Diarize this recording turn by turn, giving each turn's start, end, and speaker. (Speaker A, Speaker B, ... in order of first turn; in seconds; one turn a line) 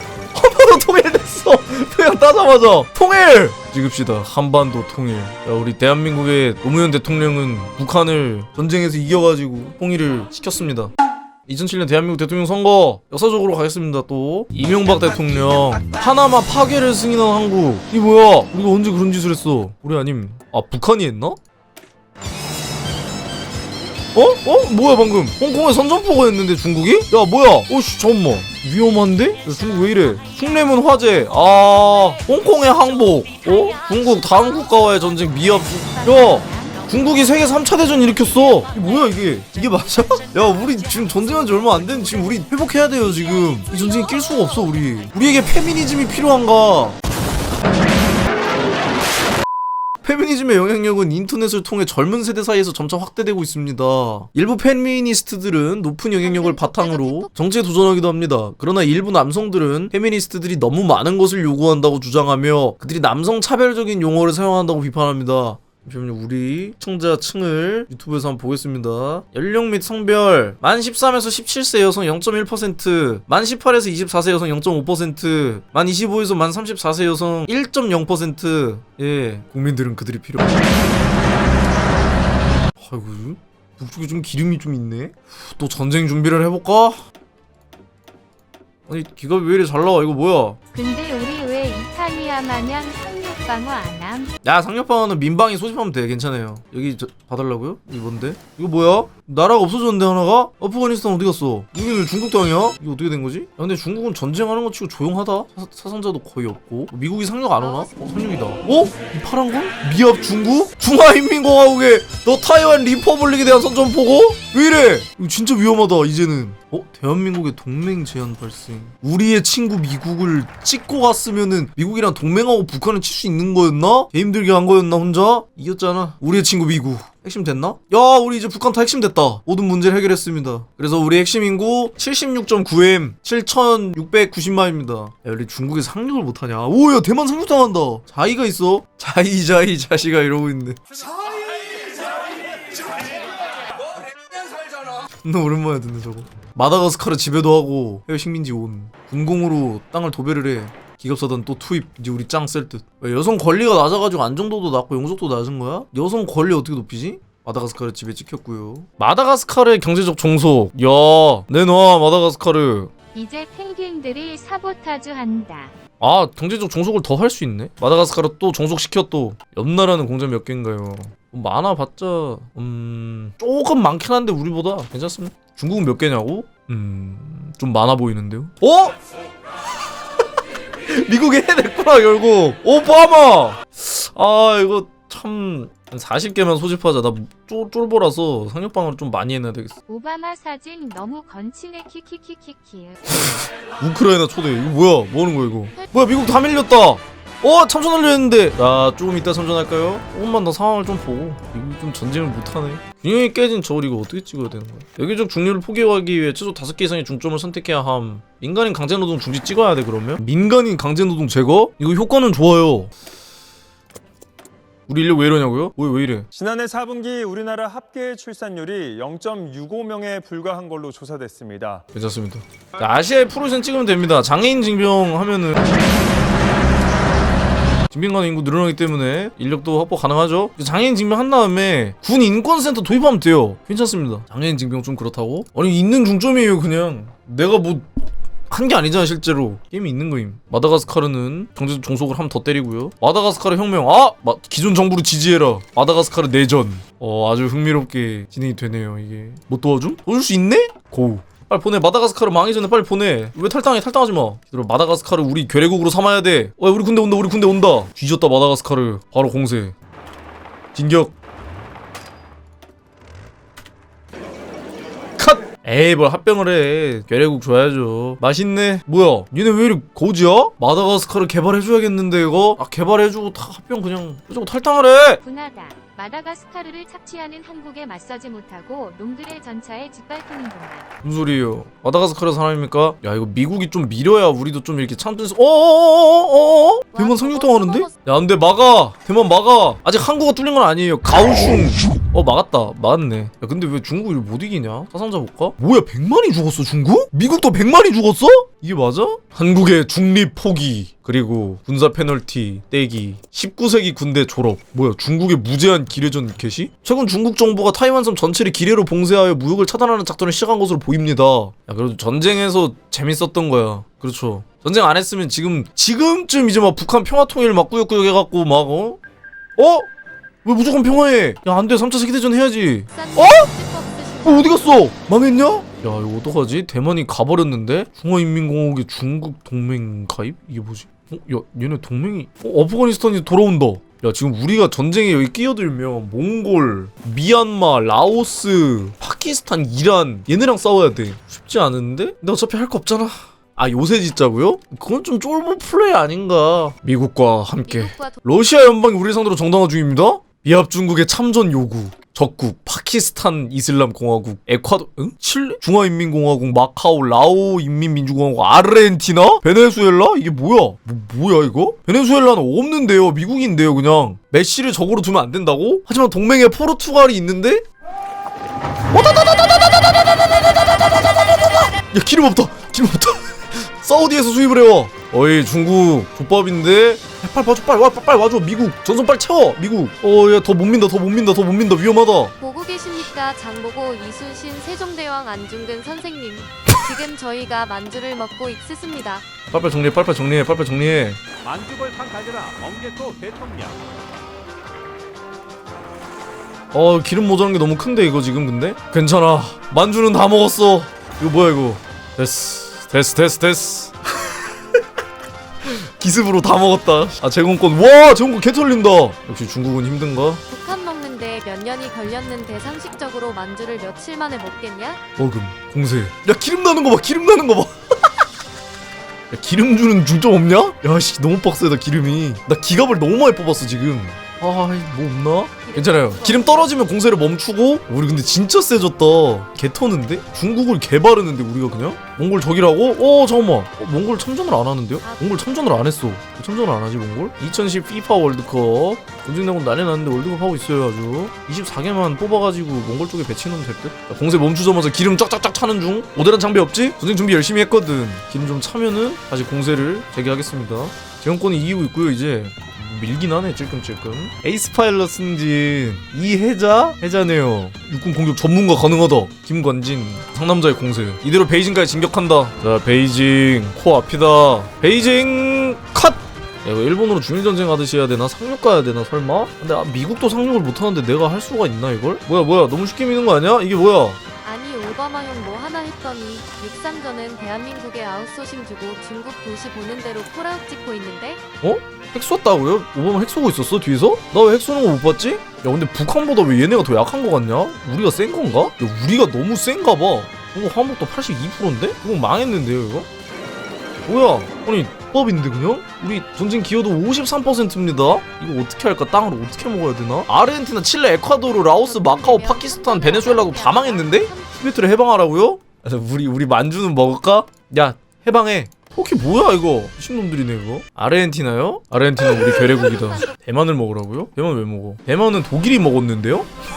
Speaker A: 0.3-10.9
Speaker A: 11.5-21.4
Speaker A: 24.1-47.0
Speaker B: 35.9-37.1
Speaker A: 50.0-80.6
Speaker C: 56.2-57.3
Speaker A: 82.8-87.0
Speaker A: 88.9-90.6
Speaker B: 90.7-94.3
Speaker A: 94.4-140.8
Speaker C: 107.6-107.9
Speaker A: 145.2-162.9
Speaker B: 163.2-165.7
Speaker A: 166.0-179.0
Speaker A: 180.9-189.7
Speaker B: 189.9-193.0
Speaker A: 193.1-212.9
Speaker A: 214.9-216.3
Speaker D: 216.3-221.8
Speaker A: 221.9-225.6
Speaker A: 227.9-237.9
Speaker A: 238.5-259.7
Speaker A: 260.7-261.1
Speaker A: 265.2-275.2
Speaker B: 275.2-280.9
Speaker A: 281.0-319.0
Speaker C: 286.9-287.9
Speaker A: 319.6-319.9
Speaker A: 320.4-323.5
Speaker C: 322.9-324.7
Speaker A: 324.2-367.6
Speaker C: 347.7-348.2
Speaker A: 368.9-370.1
Speaker A: 371.9-382.3
Speaker C: 382.4-389.3
Speaker A: 389.5-391.2
Speaker E: 391.5-393.8
Speaker A: 396.7-404.8
Speaker A: 405.6-410.4
Speaker C: 410.5-415.0
Speaker A: 415.2-418.1
Speaker A: 419.3-474.2
Speaker C: 425.6-426.7
Speaker C: 435.0-435.6
Speaker C: 474.4-481.4
Speaker A: 481.6-493.1
Speaker A: 494.1-516.5
Speaker C: 501.6-504.6
Speaker C: 512.8-513.3